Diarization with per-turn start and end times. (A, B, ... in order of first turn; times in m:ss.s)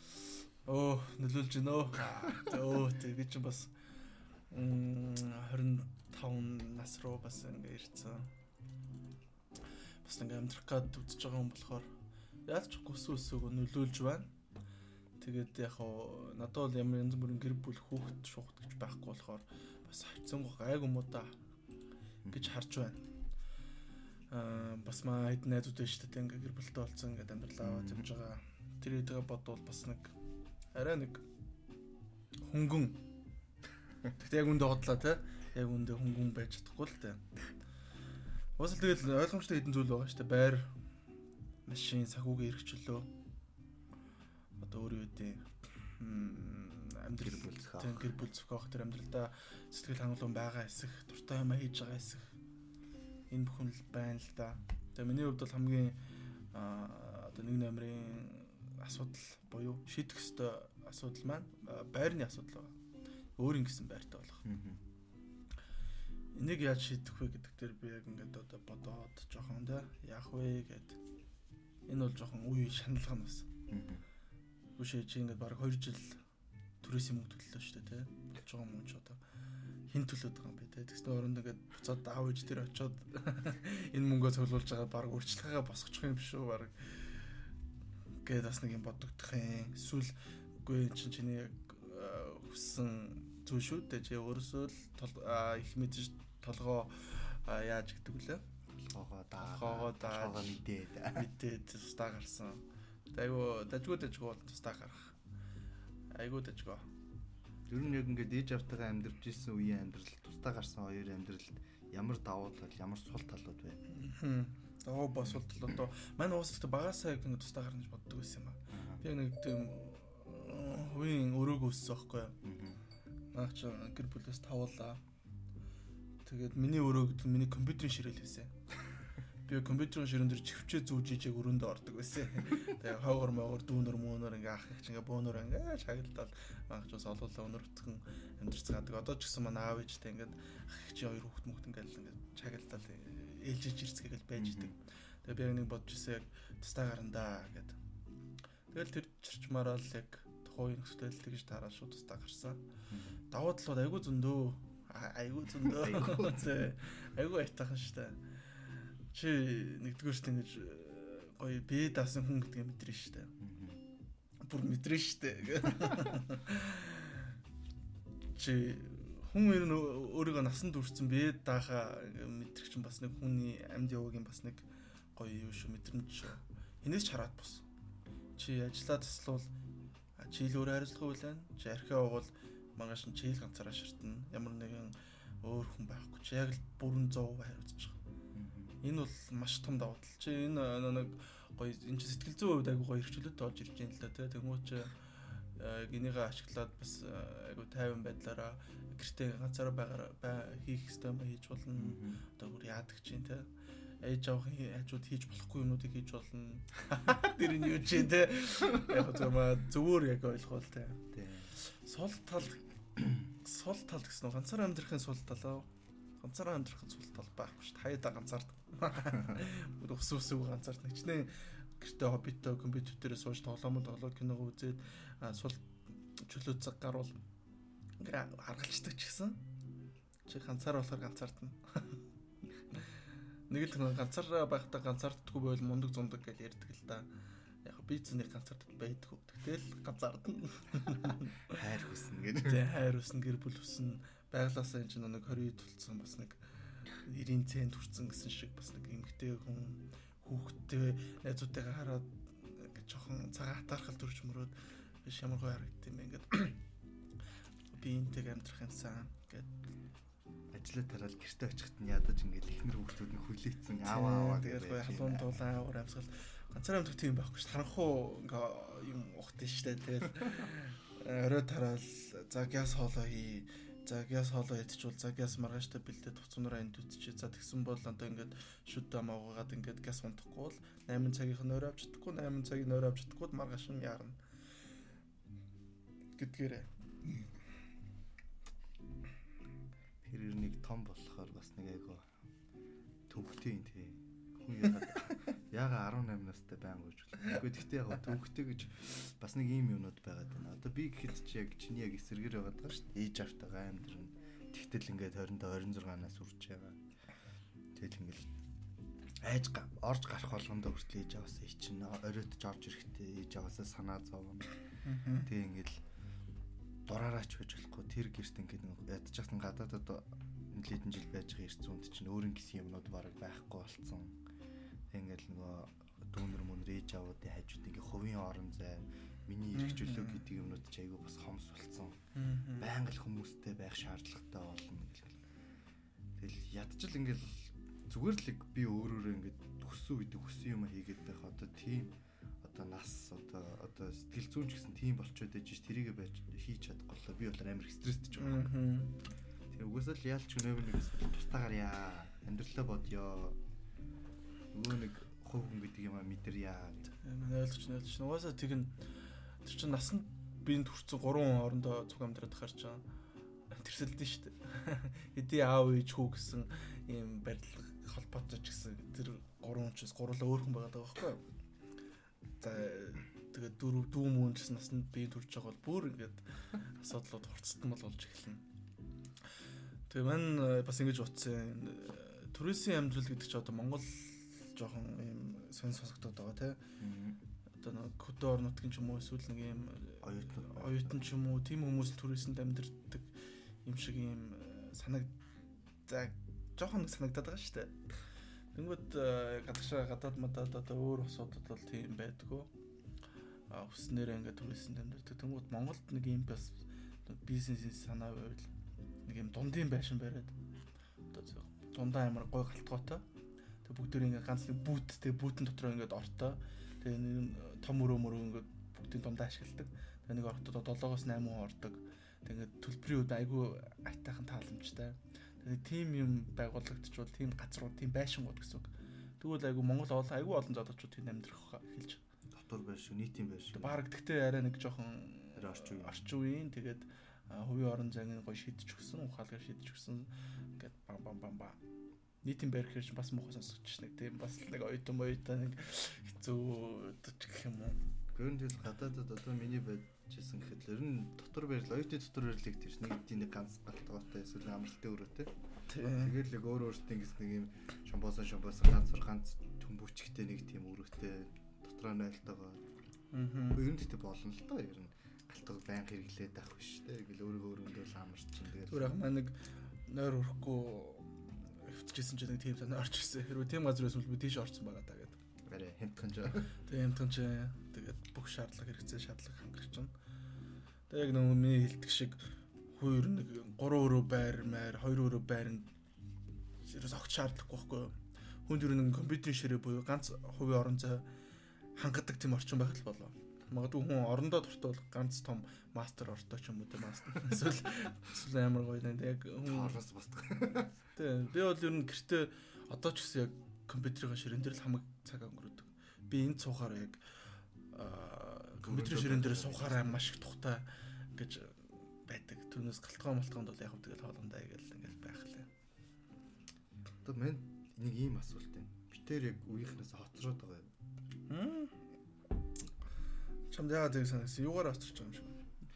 0:00.2-0:03.7 A
0:04.5-0:08.3 A
0:10.0-0:11.9 A
0:12.4-0:14.3 A
0:15.2-0:21.4 A
0:22.2-0:22.5 B
0:22.3-0:23.0 A
0:24.3-0:30.1 A
0:27.6-0:28.1 B
0:30.7-0:31.2 A
0:32.4-0:33.0 A
0:34.1-0:37.2 A
0:38.6-0:40.7 A
0:41.6-0:43.1 A
0:44.6-0:52.3 A
0:47.2-0:48.1 B
0:53.3-0:56.0 A
0:56.5-1:02.7 A
1:03.4-1:04.4 A
1:04.4-1:04.8 B
1:06.3-1:11.0 A
1:11.9-1:13.5 A
1:13.7-1:14.0 B
1:14.8-1:16.2 A
1:16.8-1:19.2 A
1:19.9-1:27.2 A
1:28.2-1:38.4 A
1:38.7-1:41.3 B
1:39.4-1:40.6 A
1:41.1-1:45.1 A
1:46.1-1:46.9 A
1:47.7-1:53.8 B
1:53.9-2:02.4 A
1:58.7-1:59.0 B
2:02.4-2:02.8 B
2:03.3-2:05.0 A
2:06.2-2:08.5 A
2:09.4-2:27.8 A
2:24.4-2:24.7 B
2:28.7-2:32.6 A
2:32.9-2:33.2 B
2:33.3-2:43.3 A
2:35.6-2:36.6 B
2:43.4-2:43.8 B
2:44.4-2:47.3 A
2:48.3-2:57.6 A
2:58.4-2:59.5 A
3:00.2-3:08.0 A
3:08.3-3:08.8 B
3:08.8-3:23.5 A
3:21.8-3:22.2 B
3:24.0-3:32.6 A
3:31.1-3:31.5 B
3:33.0-3:33.2 B
3:33.2-3:35.7 A
3:36.2-3:47.2 A
3:48.0-3:49.4 A
3:50.2-3:52.0 A
3:53.5-3:57.1 A
3:57.6-4:01.5 A
4:01.4-4:02.6 B
4:02.4-4:16.6 A
4:17.7-4:19.7 A
4:20.5-4:25.3 B
4:23.8-4:44.2 A
4:46.2-4:46.7 A
4:50.0-4:52.1 B
4:53.1-5:06.8 B
5:07.7-5:08.3 B
5:09.2-5:14.5 B
5:14.8-5:15.3 A
5:15.1-5:15.8 B
5:16.8-5:24.2 B
5:24.9-5:32.0 B
5:29.5-5:30.2 A
5:32.2-5:32.7 A
5:32.6-5:35.2 B
5:36.2-5:48.5 B
5:48.2-5:49.0 A
5:49.5-5:53.4 B
5:54.5-5:56.9 B
5:57.0-5:58.8 A
5:59.4-6:02.8 A
6:03.5-6:11.2 A
6:12.4-6:18.4 A
6:19.9-6:26.6 A
6:26.8-6:27.2 B
6:27.6-6:33.1 A
6:30.0-6:31.0 B
6:33.6-6:35.2 A
6:35.9-6:37.8 A
6:38.5-6:42.5 A
6:43.5-6:48.5 A
6:49.0-6:50.4 A
6:51.1-6:53.0 A
6:53.6-7:08.7 A
7:09.2-7:12.0 A
7:12.3-7:13.8 B
7:13.5-7:21.6 A
7:15.4-7:16.0 B
7:22.2-7:27.8 A
7:28.1-7:35.3 B
7:35.7-7:36.2 A
7:35.9-7:42.6 B
7:43.1-7:43.6 A
7:43.5-7:49.0 B
7:48.7-7:55.2 A
7:55.4-7:56.5 B
7:56.6-7:59.9 A
8:00.9-8:02.2 A
8:02.7-8:05.7 A
8:06.6-8:11.1 A
8:11.8-8:19.8 A
8:19.4-8:20.8 B
8:21.0-8:27.0 A
8:27.7-8:35.5 A
8:28.6-8:30.1 B
8:37.0-8:40.7 B
8:41.3-8:41.8 A
8:43.5-8:45.4 A